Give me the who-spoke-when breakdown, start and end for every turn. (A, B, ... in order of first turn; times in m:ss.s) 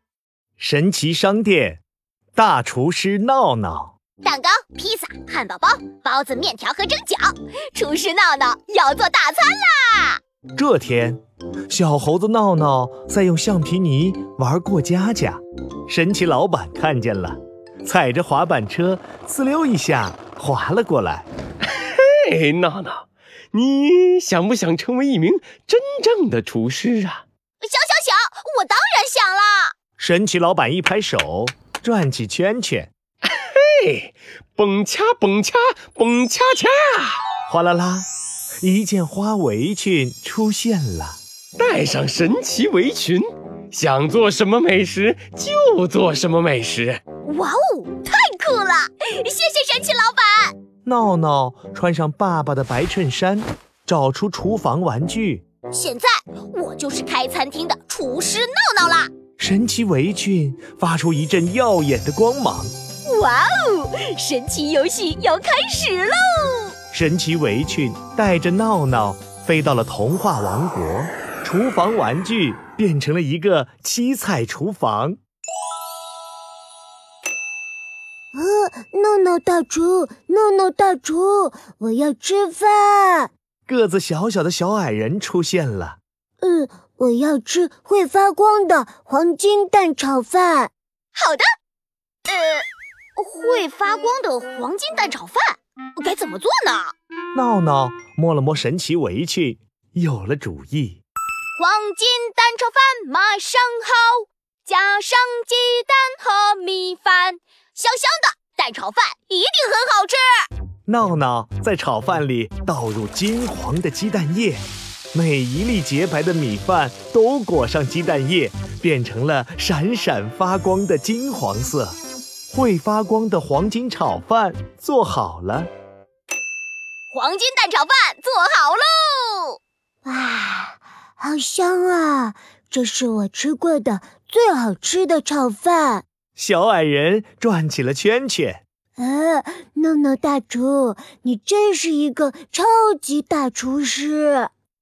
0:00.6-0:01.8 A
0:02.4-0:03.9 A
0:04.2-0:10.2 B
0:10.6-0:21.3 A
0:21.7-0:27.2 C
0:27.6-0:29.7 B
0:30.0-0:32.9 A
0:33.3-0:37.2 C
0:37.5-0:38.1 A
0:38.6-0:41.2 A
0:41.6-0:47.0 C
0:47.2-0:50.5 B
0:50.8-0:55.4 A
0:55.7-0:59.1 B
0:59.4-1:02.7 A
1:03.1-1:06.7 B
1:06.9-1:15.2 A
1:18.3-1:23.3 D
1:23.7-1:26.0 A
1:26.4-1:30.7 D
1:31.1-1:31.5 B
1:32.3-1:36.9 B
1:37.3-1:41.0 A
1:41.6-1:50.2 B
1:50.9-1:54.6 A
1:55.1-2:02.0 A
2:02.5-2:05.7 A
2:07.1-2:09.6 B
2:10.0-2:16.0 D
2:16.4-2:18.6 A
2:19.0-2:24.5 D